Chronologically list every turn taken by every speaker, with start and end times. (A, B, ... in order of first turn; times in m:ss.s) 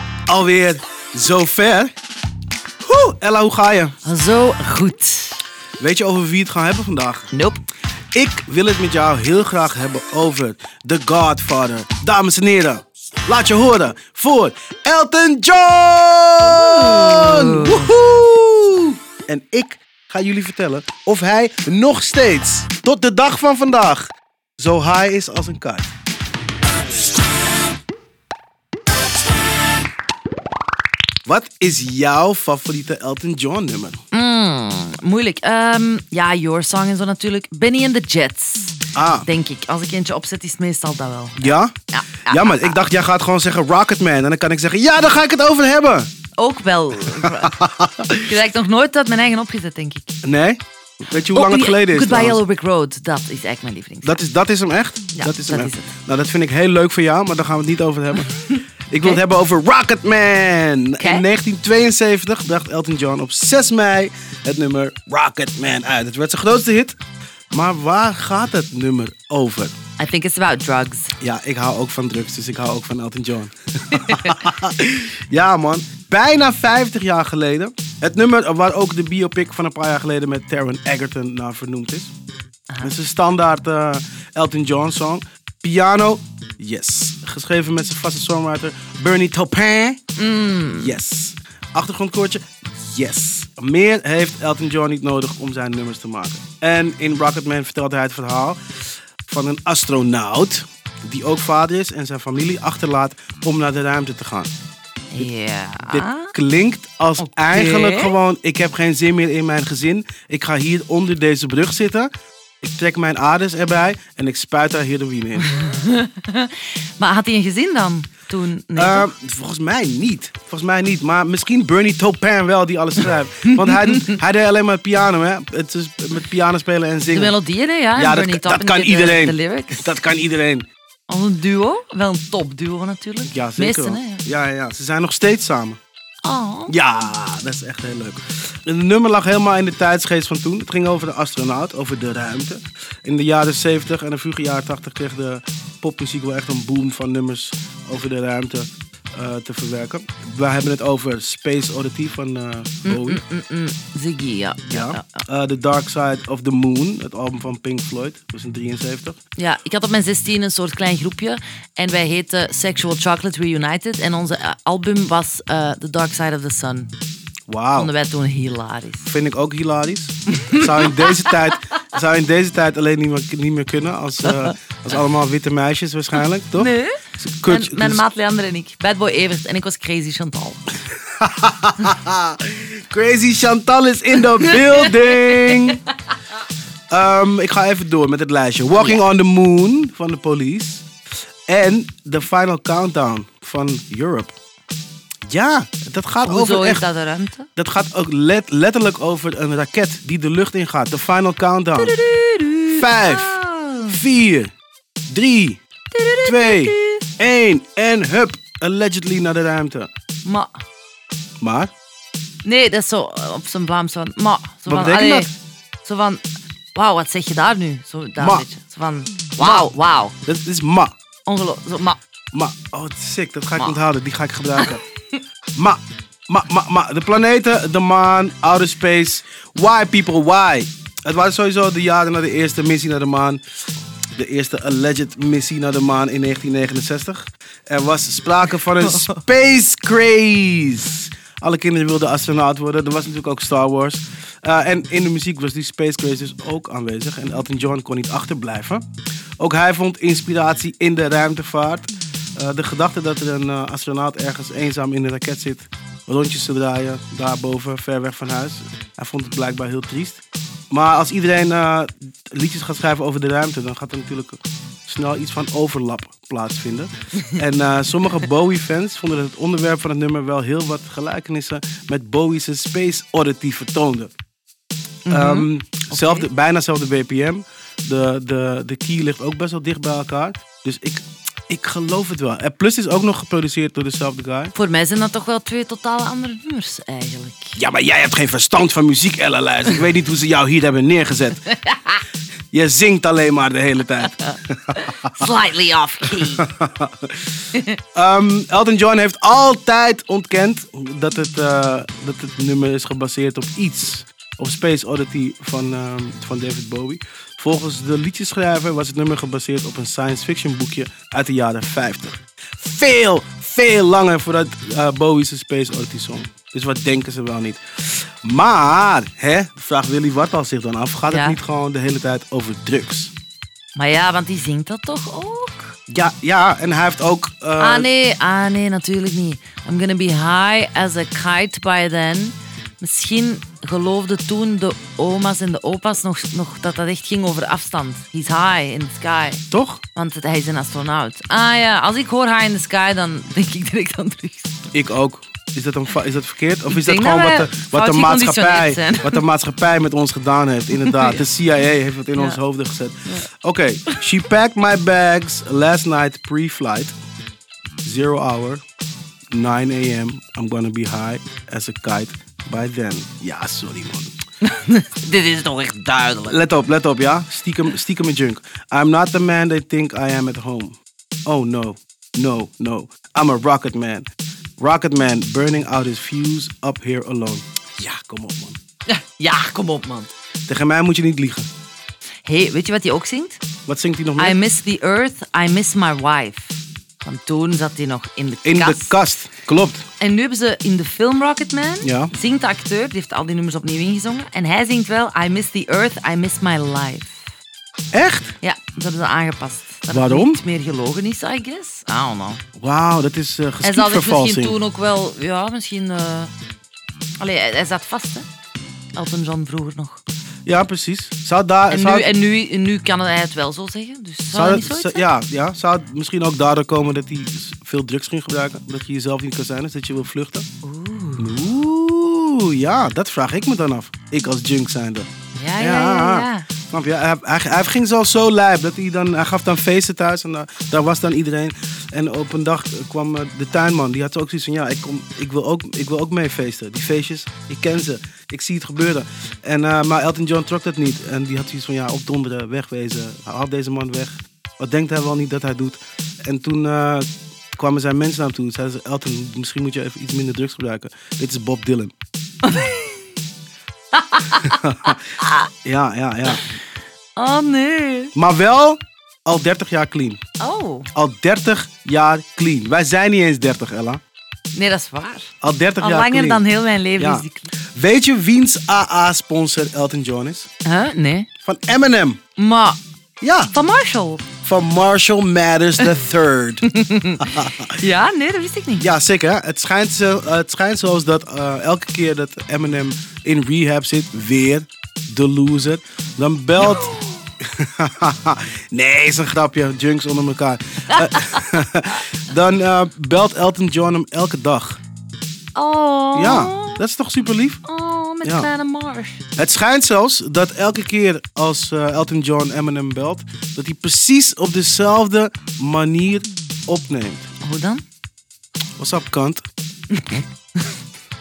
0:00.3-0:01.9 A
0:02.8-0:04.0 A
0:04.0-0:05.4 B
0:05.8-0:07.3 A
0:07.3-0:07.6 B
0:08.1-0:25.9 A
0:16.5-0:17.9 B
0:31.2-0:34.0 A
0:34.1-0:42.8 B
0:38.9-0:39.3 A
0:41.4-0:41.7 A
0:42.3-0:46.1 A
0:46.4-0:47.6 B
0:47.2-0:48.3 A
0:48.2-0:50.1 B
0:50.2-0:52.4 A
0:51.3-0:54.2 B
0:54.0-1:07.0 A
0:55.1-0:55.9 B
1:01.0-1:01.2 B
1:07.5-1:09.7 A
1:10.0-1:11.1 B
1:11.2-1:22.1 A
1:13.9-1:14.5 B
1:22.8-1:30.0 A
1:30.2-1:31.0 B
1:30.8-1:38.6 A
1:39.2-1:44.5 A
1:45.1-1:46.3 B
1:45.9-1:52.1 A
1:47.2-1:48.1 B
1:52.6-1:55.5 A
1:55.4-1:59.1 B
1:58.8-2:07.4 A
2:03.5-2:04.2 B
2:07.1-2:10.0 B
2:07.9-2:10.7 A
2:11.1-2:14.2 B
2:13.2-2:15.8 A
2:16.2-2:16.7 B
2:16.7-2:33.2 A
2:32.8-2:35.2 B
2:34.7-2:39.2 A
2:39.4-2:46.9 B
2:47.5-2:47.9 A
2:47.8-2:49.1 B
2:49.0-2:58.0 A
2:50.4-2:51.0 B
2:56.5-3:00.6 B
3:01.2-3:05.8 A
3:04.5-3:05.5 B
3:06.9-3:10.9 A
3:08.7-3:09.0 B
3:11.5-3:14.3 A
3:15.3-3:16.8 A
3:16.2-3:17.5 B
3:17.6-3:22.0 A
3:21.7-3:24.0 B
3:22.7-3:24.5 A
3:25.1-3:25.6 A
3:25.9-3:27.0 B
3:26.2-3:29.9 A
3:30.2-3:30.6 B
3:31.4-3:31.7 A
3:32.4-3:35.3 B
3:34.7-3:35.3 A
3:35.8-3:36.2 B
3:36.7-3:40.1 B
3:38.2-3:38.4 A
3:39.4-3:39.7 A
3:40.2-3:40.9 A
3:41.3-3:42.0 B
3:42.3-3:44.8 A
3:44.6-3:45.1 B
3:45.5-3:53.4 A
3:54.2-4:08.8 A
3:58.8-3:59.1 B
4:09.4-4:34.1 A
4:35.0-4:36.3 B
4:35.1-4:44.5 A
4:44.5-4:47.6 B
4:47.6-4:51.4 A
4:51.5-4:52.0 B
4:52.5-4:55.3 A
4:54.2-4:56.4 B
4:56.1-4:57.1 A
4:57.9-5:17.6 A
5:18.2-5:23.1 A
5:21.1-5:21.4 B
5:23.7-5:25.7 B
5:25.9-5:27.9 A
5:27.6-5:39.4 B
5:39.5-5:39.8 A
5:39.9-5:44.7 B
5:44.7-5:56.9 A
5:46.7-5:49.2 B
5:50.8-5:51.3 B
5:57.8-5:58.6 A
5:59.3-6:04.1 A
6:04.4-6:06.4 B
6:06.2-6:18.6 A
6:18.9-6:20.1 B
6:20.5-6:21.5 A
6:22.2-6:23.4 B
6:23.7-6:24.4 A
6:24.2-6:29.0 B
6:28.4-6:29.9 A
6:30.0-6:37.2 B
6:31.8-6:32.1 A
6:37.9-6:38.3 A
6:38.4-6:42.4 B
6:39.9-6:40.4 A
6:42.6-6:44.6 A
6:43.6-6:46.3 B
6:47.2-6:48.3 B
6:48.9-6:50.0 B
6:50.4-6:52.1 A
6:51.7-6:55.0 B
6:54.3-7:00.4 A
7:00.6-7:01.3 B
7:01.2-7:27.0 A
7:05.3-7:06.5 B
7:27.6-7:31.9 A
7:32.4-7:33.0 B
7:33.9-7:35.5 B
7:34.4-7:35.0 A
7:35.6-7:36.4 A
7:37.2-7:38.1 B
7:38.1-7:40.2 A
7:40.4-7:40.9 B
7:40.9-7:44.0 A
7:44.5-7:45.3 B
7:45.4-7:46.4 A
7:45.8-7:47.5 B
7:47.0-7:50.5 A
7:50.6-7:51.3 B
7:51.4-7:52.2 A
7:52.4-7:52.8 B
7:53.2-7:53.5 A
7:53.5-7:54.2 B
7:54.4-7:56.6 A
7:56.7-7:58.8 B
7:57.2-7:57.8 A
7:58.8-8:06.9 A
8:06.6-8:07.2 B
8:07.6-8:14.8 A
8:10.9-8:11.4 B
8:15.5-8:16.8 B
8:16.1-8:17.6 A
8:17.6-8:19.2 B
8:18.2-8:18.5 A
8:19.4-8:27.3 A
8:27.4-8:27.8 B
8:28.8-8:29.4 A
8:29.9-8:30.2 B